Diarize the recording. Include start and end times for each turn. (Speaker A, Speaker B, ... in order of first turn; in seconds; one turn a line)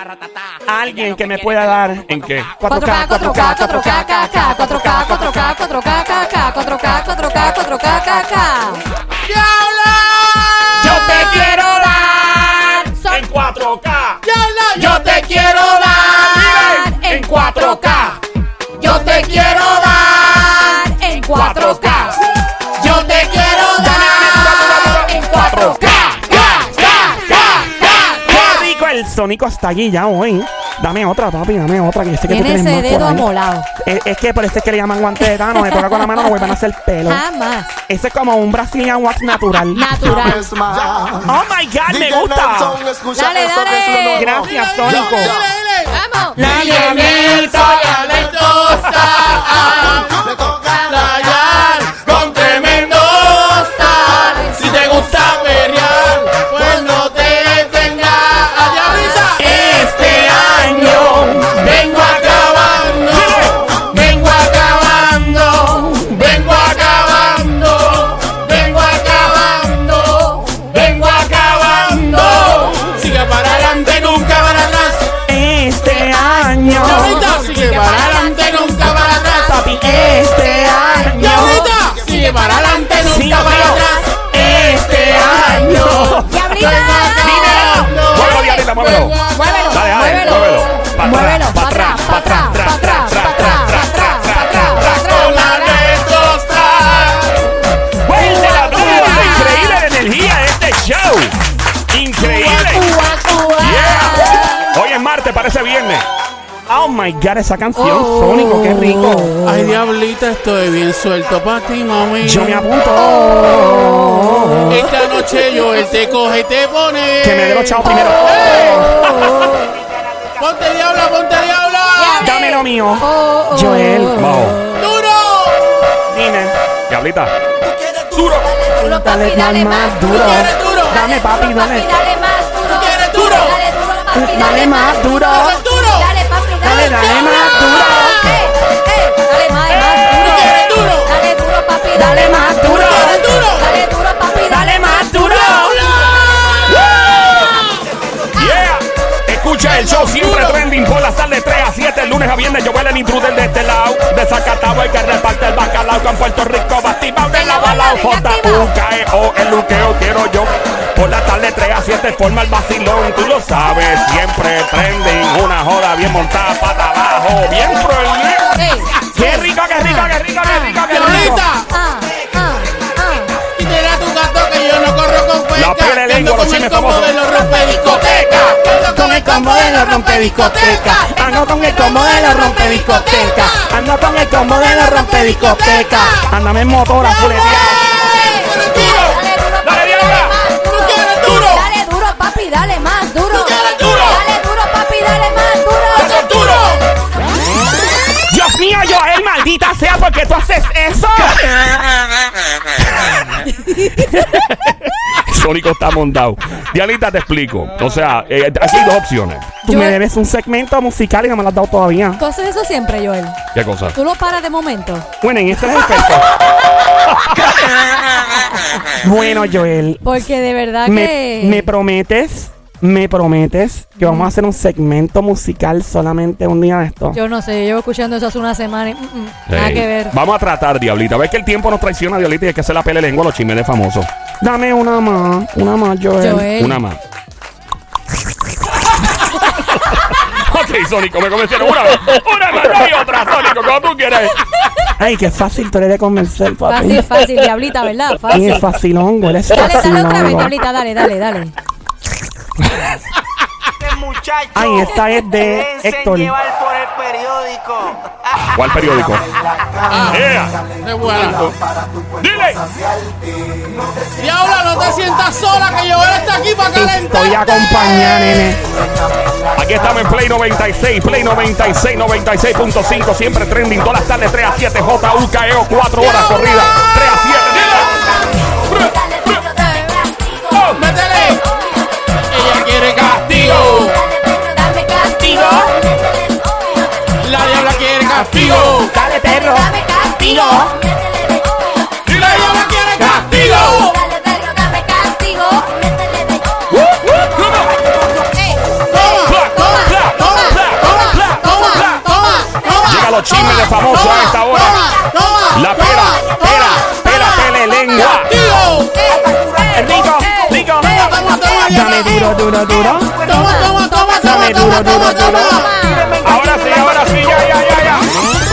Speaker A: 0.6-6.1
Speaker B: 2.1-2.5
Speaker C: 2.6-8.8
Speaker A: 7.1-8.2
Speaker D: 9.2-11.1
Speaker C: 10.8-13.2
Speaker A: 11.0-11.4
Speaker B: 13.1-14.2
Speaker D: 14.2-16.3
Speaker B: 14.9-15.2
Speaker C: 14.9-18.2
Speaker B: 16.3-18.2
Speaker C: 18.8-22.2
Speaker D: 18.8-20.5
Speaker B: 21.1-22.2
Speaker D: 22.8-23.9
Speaker C: 22.8-28.4
Speaker A: 23.8-25.0
Speaker B: 24.0-26.7
Speaker D: 26.4-28.7
Speaker A: 28.2-37.2
Speaker C: 32.3-33.7
Speaker C: 35.2-36.5
Speaker C: 37.0-37.8
Speaker A: 37.9-40.2
Speaker C: 39.7-40.5
Speaker E: 40.1-45.5
Speaker A: 41.2-42.8
Speaker C: 43.1-44.5
Speaker A: 44.1-45.3
Speaker D: 44.4-75.1
Speaker C: 45.9-46.4
Speaker A: 46.3-47.9
Speaker C: 49.2-51.9
Speaker E: 49.7-50.6
Speaker C: 53.5-54.9
Speaker C: 58.6-59.4
Speaker A: 59.4-62.4
Speaker B: 63.1-63.5
Speaker A: 63.2-63.5
Speaker A: 75.2-77.3
Speaker C: 76.0-79.5
Speaker D: 76.8-79.6
Speaker A: 79.4-81.7
Speaker C: 80.6-84.1
Speaker D: 81.2-89.9
Speaker A: 83.0-86.8
Speaker C: 86.3-87.9
Speaker B: 87.2-89.2
Speaker A: 87.5-87.8
Speaker C: 89.3-96.0
Speaker B: 89.7-95.1
Speaker D: 94.8-97.5
Speaker B: 98.0-101.3
Speaker C: 98.1-99.8
Speaker D: 98.2-99.5
Speaker B: 101.9-102.9
Speaker D: 102.2-103.0
Speaker C: 102.3-104.7
Speaker B: 103.6-106.1
Speaker A: 106.7-109.3
Speaker C: 107.8-109.7
Speaker D: 109.4-112.7
Speaker A: 112.2-114.9
Speaker C: 112.9-115.2
Speaker D: 114.7-119.3
Speaker A: 117.2-119.0
Speaker C: 117.8-119.8
Speaker D: 120.4-122.3
Speaker C: 122.0-124.8
Speaker A: 122.2-124.2
Speaker B: 124.1-124.6
Speaker D: 124.7-125.8
Speaker A: 126.1-126.5
Speaker B: 126.9-127.3
Speaker E: 127.7-128.2
Speaker B: 128.1-128.5
Speaker C: 128.7-146.6
Speaker A: 128.8-131.9
Speaker D: 130.2-131.0
Speaker D: 132.7-133.6
Speaker A: 134.1-135.6
Speaker D: 135.2-136.1
Speaker A: 136.6-138.3
Speaker D: 139.7-141.1
Speaker A: 141.9-143.2
Speaker D: 142.6-143.7
Speaker A: 144.5-145.9
Speaker D: 145.1-146.9
Speaker B: 146.7-147.6
Speaker B: 148.3-168.6
Speaker D: 149.6-150.6
Speaker C: 157.3-158.7
Speaker C: 168.5-169.1
Speaker A: 169.1-170.2
Speaker B: 169.1-171.4
Speaker C: 169.8-173.3
Speaker D: 170.9-171.7
Speaker A: 171.0-171.4
Speaker D: 173.5-183.8
Speaker B: 175.5-177.1
Speaker A: 178.9-187.9
Speaker D: 184.4-186.3
Speaker C: 187.1-196.7
Speaker D: 187.2-189.2
Speaker B: 189.6-190.3
Speaker D: 190.7-191.7
Speaker D: 193.3-194.2
Speaker D: 195.9-196.8
Speaker A: 198.3-201.6
Speaker B: 204.3-209.6
Speaker A: 209.6-212.2
Speaker C: 209.6-210.0
Speaker C: 212.2-213.4
Speaker B: 213.5-213.9
Speaker C: 213.9-215.1
Speaker A: 215.2-216.2
Speaker A: 218.9-220.2
Speaker C: 220.0-221.7
Speaker A: 220.8-227.2
Speaker C: 224.0-224.3
Speaker C: 227.1-230.1
Speaker B: 229.5-234.1
Speaker A: 234.4-236.5
Speaker C: 236.2-236.8
Speaker B: 236.6-237.0
Speaker B: 239.6-244.4
Speaker A: 245.0-247.2
Speaker C: 246.7-248.7
Speaker A: 248.3-250.5
Speaker C: 249.5-251.5
Speaker E: 254.0-254.5
Speaker A: 254.5-256.4
Speaker E: 256.4-258.0
Speaker B: 258.4-259.2
Speaker D: 259.9-261.5
Speaker B: 260.1-260.6
Speaker B: 261.2-261.5
Speaker B: 262.2-262.6
Speaker E: 263.5-263.7
Speaker D: 264.1-267.8
Speaker A: 266.8-268.6
Speaker B: 269.5-278.1
Speaker C: 276.1-276.5
Speaker B: 278.6-279.4
Speaker C: 278.6-280.7
Speaker B: 280.5-280.8
Speaker D: 280.7-281.4
Speaker D: 282.3-284.0
Speaker C: 283.4-287.5
Speaker A: 285.2-285.7
Speaker D: 287.2-288.9
Speaker A: 288.3-290.8
Speaker C: 288.3-292.1
Speaker B: 292.1-292.6
Speaker D: 292.1-294.0
Speaker A: 293.0-293.3
Speaker C: 293.0-296.9
Speaker B: 296.7-297.8
Speaker C: 298.1-305.3
Speaker D: 298.9-309.1
Speaker B: 299.2-302.0
Speaker B: 302.8-304.8
Speaker B: 305.5-308.3
Speaker C: 306.6-308.1
Speaker C: 308.9-312.5
Speaker A: 309.7-310.8
Speaker B: 309.8-310.9
Speaker D: 310.8-312.4
Speaker A: 311.7-313.3
Speaker C: 313.1-316.2
Speaker D: 313.2-316.1
Speaker A: 314.2-315.6
Speaker B: 316.2-318.1
Speaker A: 316.3-316.7